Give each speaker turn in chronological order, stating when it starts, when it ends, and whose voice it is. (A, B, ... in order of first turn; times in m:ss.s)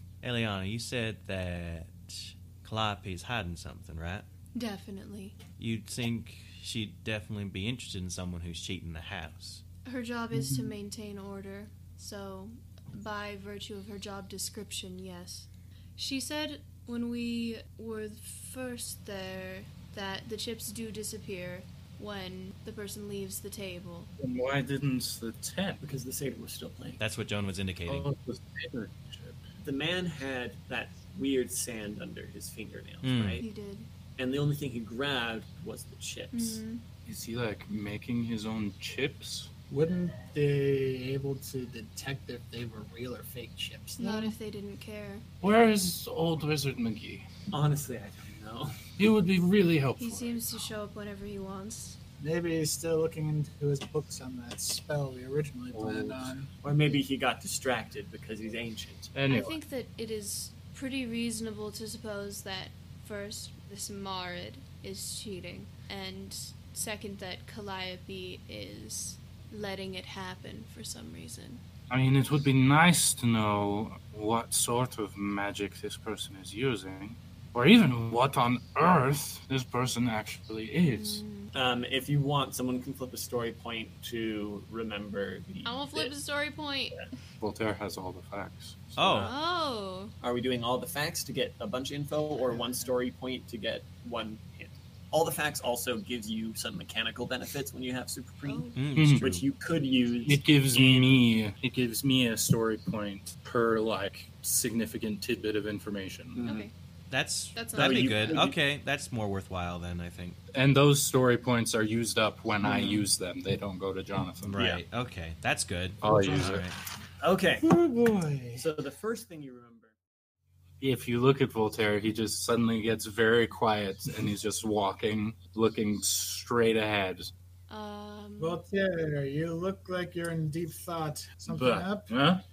0:00.2-0:04.3 A
0:04.6-0:05.4 B
0:05.6-0:09.6 A
0:09.8-0:24.1 B
0:10.3-0:10.7 C
0:24.2-0:25.8 D
0:25.8-0:27.0 E
0:27.0-0:28.1 A
0:27.9-0:29.4 D
0:29.6-0:33.4 E
0:33.0-0:33.4 A
0:33.4-0:33.9 B
0:34.2-0:36.6 E
0:36.3-0:36.8 B
0:37.1-0:39.5 D
0:39.7-0:44.4 C
0:44.0-0:45.2 B
0:45.4-0:47.2 D
0:47.5-0:48.8 E
0:49.0-0:50.6 D
0:50.0-0:52.0 B
0:52.2-0:56.5 C
0:55.7-0:56.3 D
0:56.6-0:59.1 E
0:59.1-0:59.6 D
0:59.3-1:11.6 B
1:11.9-1:21.2 D
1:20.9-1:21.5 B
1:21.5-1:26.1 E
1:25.6-1:27.2 B
1:27.4-1:29.2 D
1:29.0-1:29.3 A
1:29.2-1:30.1 B
1:30.2-1:41.2 E
1:38.4-1:38.8 B
1:38.8-1:39.4 A
1:39.0-1:39.3 D
1:40.2-1:46.7 D
1:46.4-1:46.7 E
1:46.4-1:46.7 B
1:47.1-1:50.4 A
1:47.6-1:48.4 B
1:47.7-1:48.6 E
1:50.5-1:54.5 D
1:52.6-1:53.0 E
1:54.4-1:56.8 A
1:54.6-1:54.8 E
1:56.0-1:56.7 D
1:57.2-1:57.7 E
1:57.6-1:58.7 D
1:58.6-2:00.0 E
2:00.8-2:07.3 D
2:07.7-2:08.6 B
2:08.4-2:12.1 C
2:11.5-2:12.4 D